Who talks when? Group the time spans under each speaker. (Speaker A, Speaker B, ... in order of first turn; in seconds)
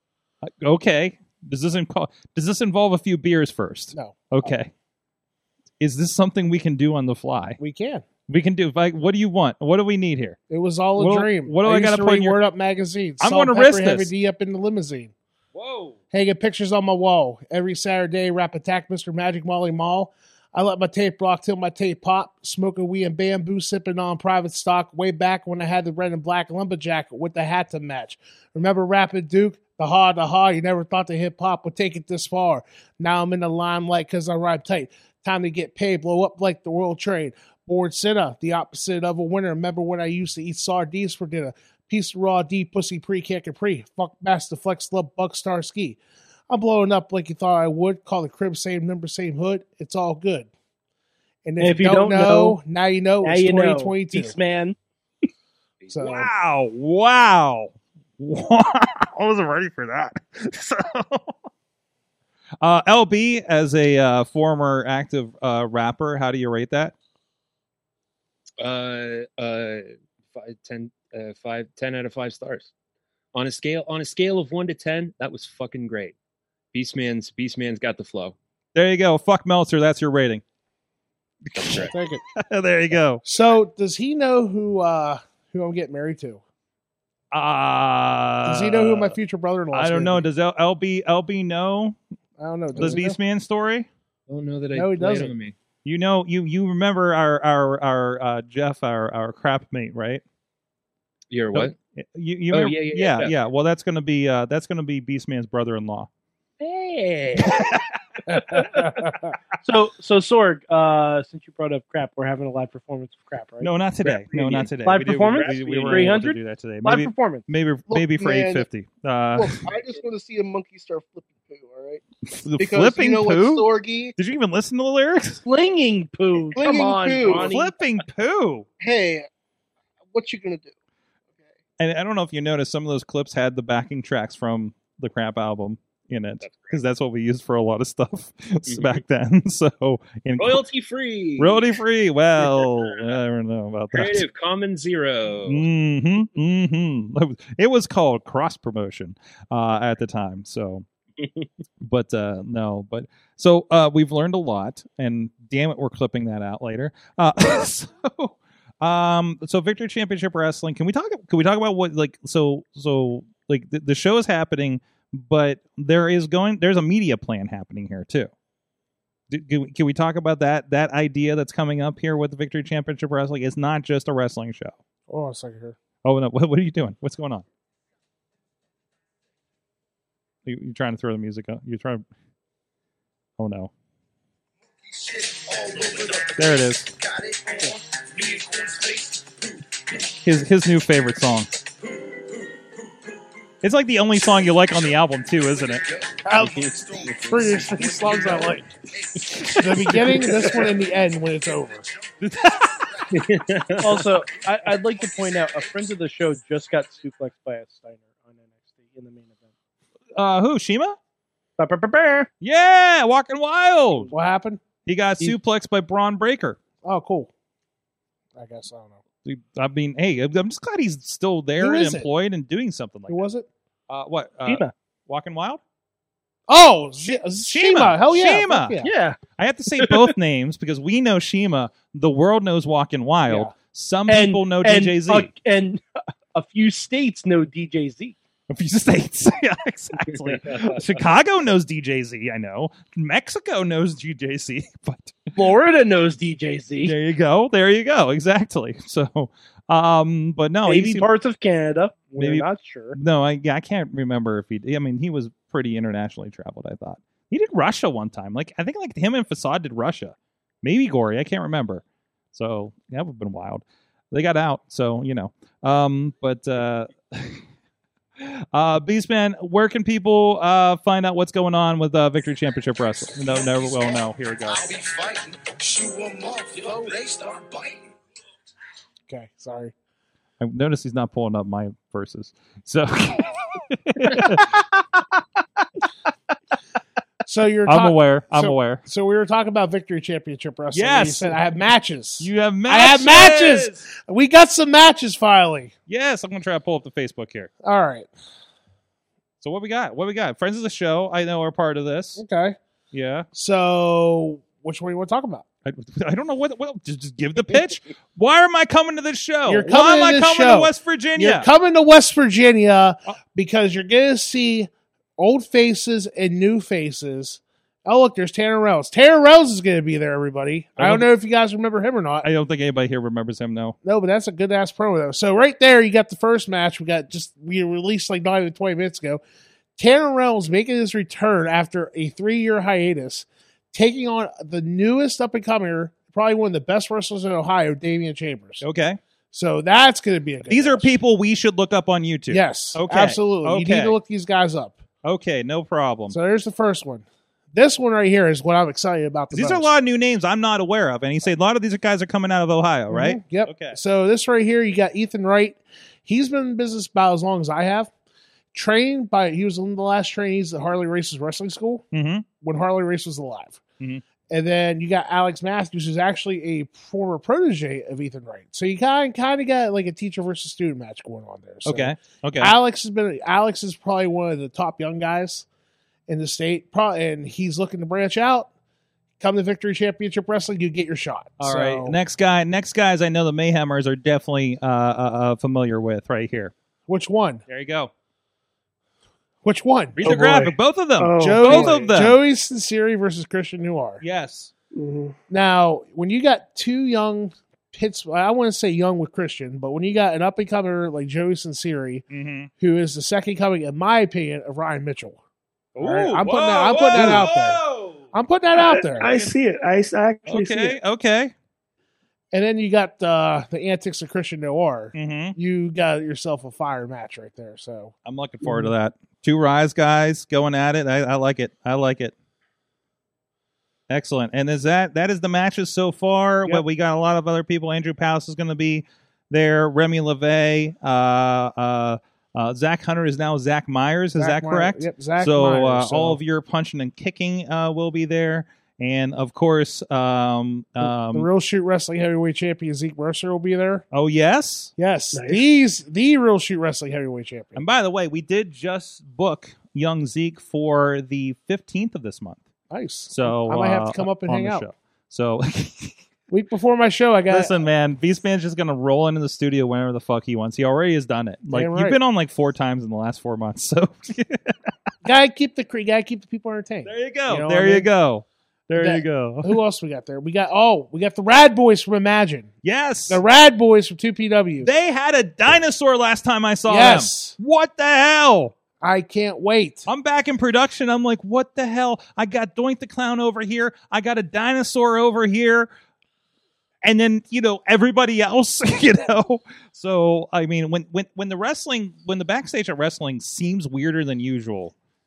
Speaker A: 0.4-4.7, 5.8-7.6, 8.3-10.4, 11.0-12.4, 13.2-14.1, 15.6-15.9, 56.0-61.4, 62.6-66.9, 78.7-80.4, 81.5-83.2, 87.3-89.2, 89.7-92.0, 92.7-93.9, 95.8-100.2, 101.5-106.1, 107.5-107.8, 113.6-119.6, 122.3-125.4, 127.3-128.7, 131.8-140.6, 141.4-144.2, 145.4-150.8, 151.8-168.3, 169.3-174.8, 176.0-177.4, 180.4-182.0, 183.4-183.7, 186.3-186.9, 190.2-191.5, 193.6-195.8, 202.2-202.8, 210.1-211.0, 212.4-214.1, 214.8-216.6, 219.2-223.2, 223.9-225.6, 227.0-228.8, 229.4-235.3, 238.5-245.2, 246.8-251.1, 252.2-267.4, 268.2-274.6, 280.4-285.8, 287.6-288.8, 290.7-291.4, 292.2-293.8, 295.9-297.5, 299.4-302.2, 302.9-303.3, 305.6-311.5, 320.8-321.1, 322.2-323.8, 338.6-339.0, 340.5-344.0, 345.0-346.2, 349.3-353.8, 361.9-362.2, 371.6-372.5, 381.4-386.5, 387.5-387.9, 390.0-392.2, 394.0-394.5, 402.1-402.5, 405.8-408.1, 409.0-409.3, 410.3-411.3, 414.9-415.4, 418.0-422.1, 423.9-441.3, 443.9-444.7, 447.6-452.4, 453.1-456.0, 457.3-464.6, 466.8-469.6, 472.6-473.2, 474.6-478.5, 479.9-485.7, 486.8-494.7
Speaker B: 3.9-4.5, 7.6-8.1, 10.5-15.1, 16.1-46.0, 46.5-50.5, 51.4-54.4, 55.9-56.3, 81.9-82.2, 83.2-86.4, 88.4-90.2, 92.4-93.2, 94.7-95.3, 108.3-109.3, 175.1-175.8, 196.2-198.7, 199.4-201.9, 214.1-214.6, 216.8-217.3, 218.3-219.0, 221.6-222.1, 223.1-223.5, 226.5-228.9, 279.1-279.7, 287.2-295.7, 297.6-298.1, 302.2-302.6, 303.3-305.4, 309.5-322.2, 323.8-329.2, 329.8-338.6, 339.3-340.9, 342.3-344.8, 346.1-349.7, 352.9-357.9, 358.5-361.9, 362.4-363.6, 364.3-375.4, 376.1-378.5, 379.2-382.0, 386.9-387.4, 389.4-390.2, 391.1-394.0, 395.3-402.0, 402.6-405.2, 405.8-407.6, 408.1-409.1, 412.3-417.9, 434.2-436.2, 440.8-443.8, 444.8-447.6, 452.7-454.7, 456.3-457.6, 461.5-462.0, 465.0-467.9, 468.7-472.5, 473.1-474.7, 476.7-477.4, 478.8-479.9
Speaker C: 51.6-52.6, 53.2-54.8, 109.6-113.7, 114.4-117.4, 125.4-127.7, 203.8-209.4, 211.6-212.3, 224.4-224.7, 228.8-229.2, 229.8-230.1, 234.1-235.8, 236.3-238.2, 245.3-246.9, 250.7-253.0
Speaker D: 68.6-72.7, 73.3-76.1, 76.7-78.3, 81.5-81.9, 94.3-95.5, 101.3-101.7, 102.5-103.3, 106.6-107.6, 115.4-116.1, 136.4-136.8, 138.7-139.0, 140.4-141.7, 142.4-143.1, 143.9-145.7, 203.2-203.7
Speaker E: 117.9-118.7, 119.3-122.0, 122.6-124.1, 126.5-127.5, 128.8-129.3, 130.1-130.7
Speaker F: 184.9-186.5, 187.0-189.3, 196.6-198.5, 274.5-277.8
Speaker G: 390.0-392.0, 394.7-395.2, 406.9-407.2, 408.5-410.8, 445.1-445.5